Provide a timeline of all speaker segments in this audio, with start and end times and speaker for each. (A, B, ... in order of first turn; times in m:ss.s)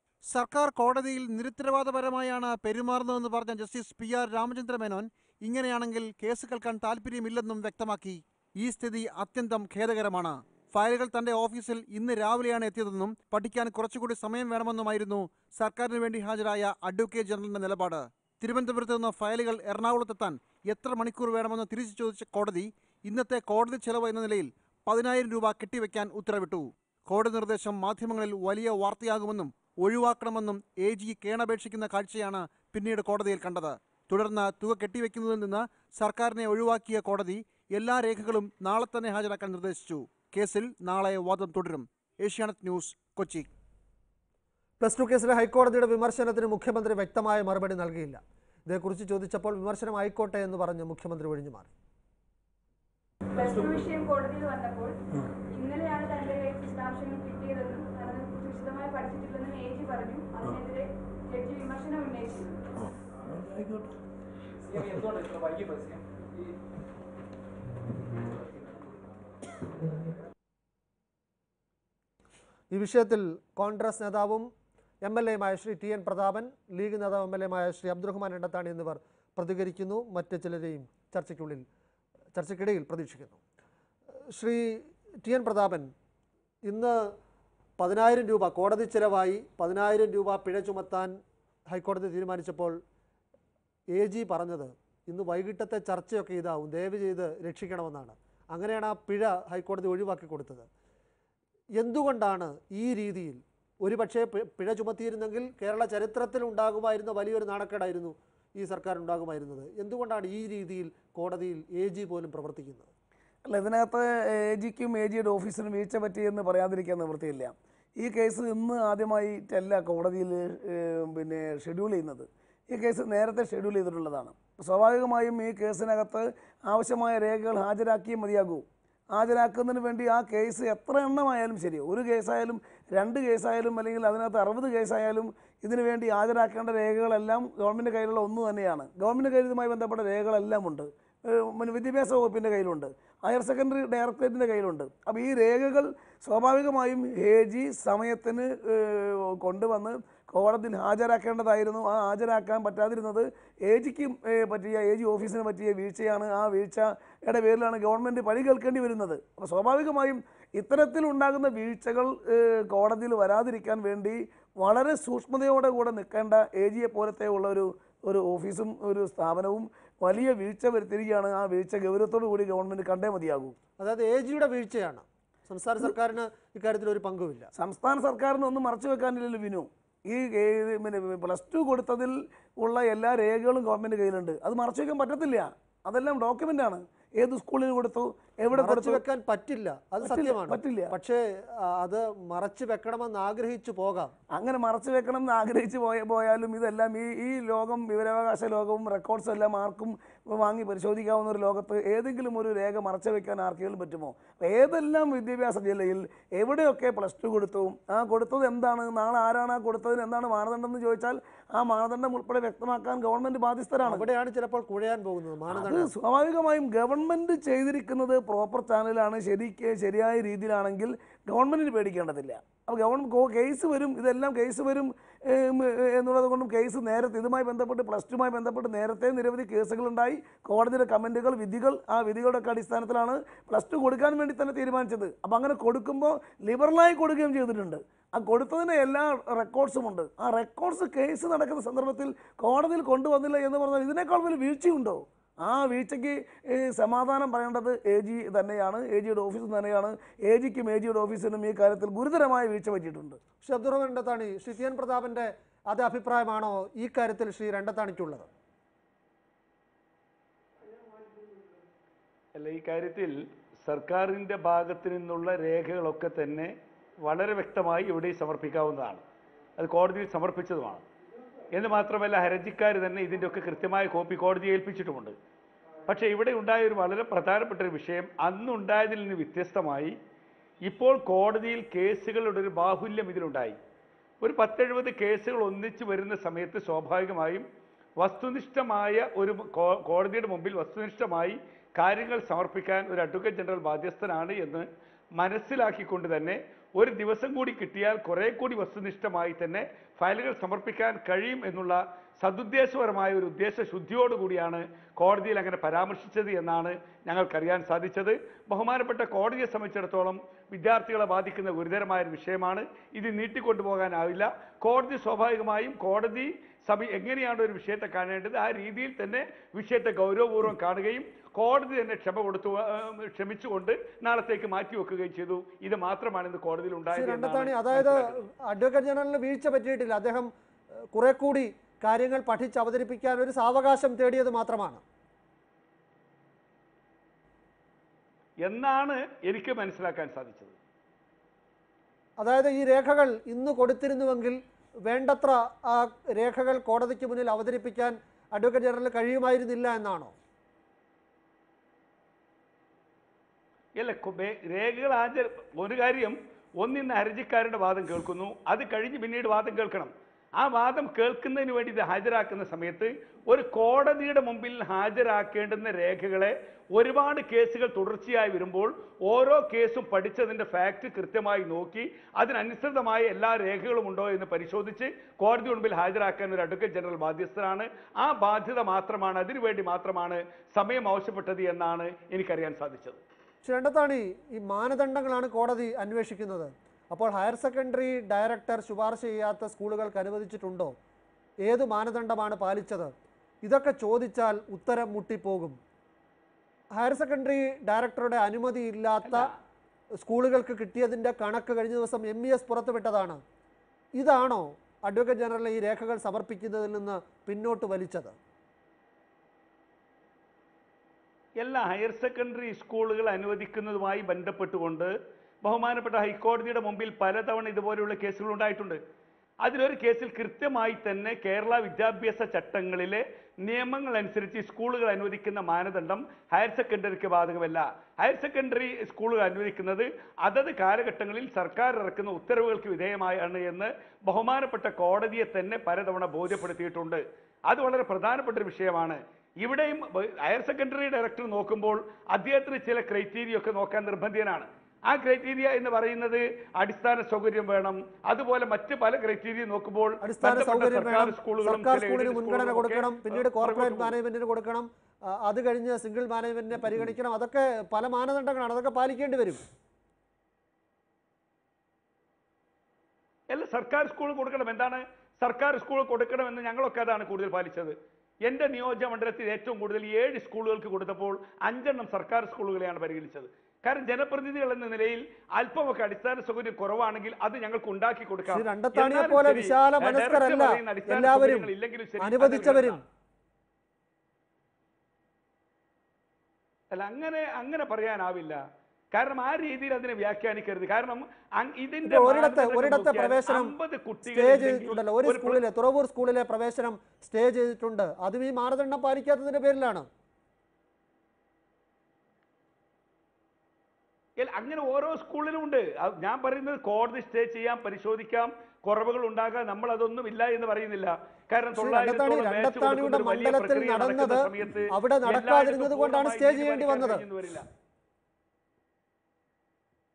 0:00.3-0:43.5 A
0:44.8-0:51.7 B
0:53.3-1:02.9 C
1:12.7-1:14.5 B
1:15.0-1:21.6 B
1:22.3-1:23.4 B
1:24.3-1:25.9 B
1:26.6-1:27.1 B
1:27.8-1:31.2 B
1:31.7-1:32.8 B
1:33.9-1:40.7 B
1:41.8-1:52.9 B
1:53.4-2:53.6 D
2:53.8-2:57.5 B
2:57.6-3:09.0 D
3:08.5-3:14.1 B
3:10.0-3:10.9 D
3:14.3-3:34.1 D
3:33.8-3:35.9 B
3:35.5-4:13.2 D
4:13.4-4:18.3 B
4:22.4-4:29.0 E
4:29.6-4:30.8 E
4:31.5-4:35.1 E
4:35.9-4:39.9 E
4:40.6-4:43.6 E
4:44.2-4:47.4 E
4:48.0-4:54.6 E
4:55.2-5:28.1 E
5:26.9-5:30.3 B
5:30.9-5:34.8 B
5:38.4-5:40.6 E
5:42.2-5:50.1 B
5:53.8-6:23.0 E
6:23.4-6:30.7 B
6:31.4-6:35.6 B
6:36.7-6:39.3 B
6:39.0-6:39.4 E
6:40.0-6:43.2 B
6:43.9-6:48.2 B
6:51.4-6:54.9 E
6:55.4-6:58.8 E
6:59.4-7:33.9 E
7:30.0-7:39.4 B
7:43.3-8:02.8 E
7:58.3-8:01.5 B
8:02.0-8:02.8 B
8:06.7-8:08.4 E
8:08.9-8:15.4 E
8:11.8-8:19.8 B
8:24.2-8:37.4 E
8:31.5-8:37.0 B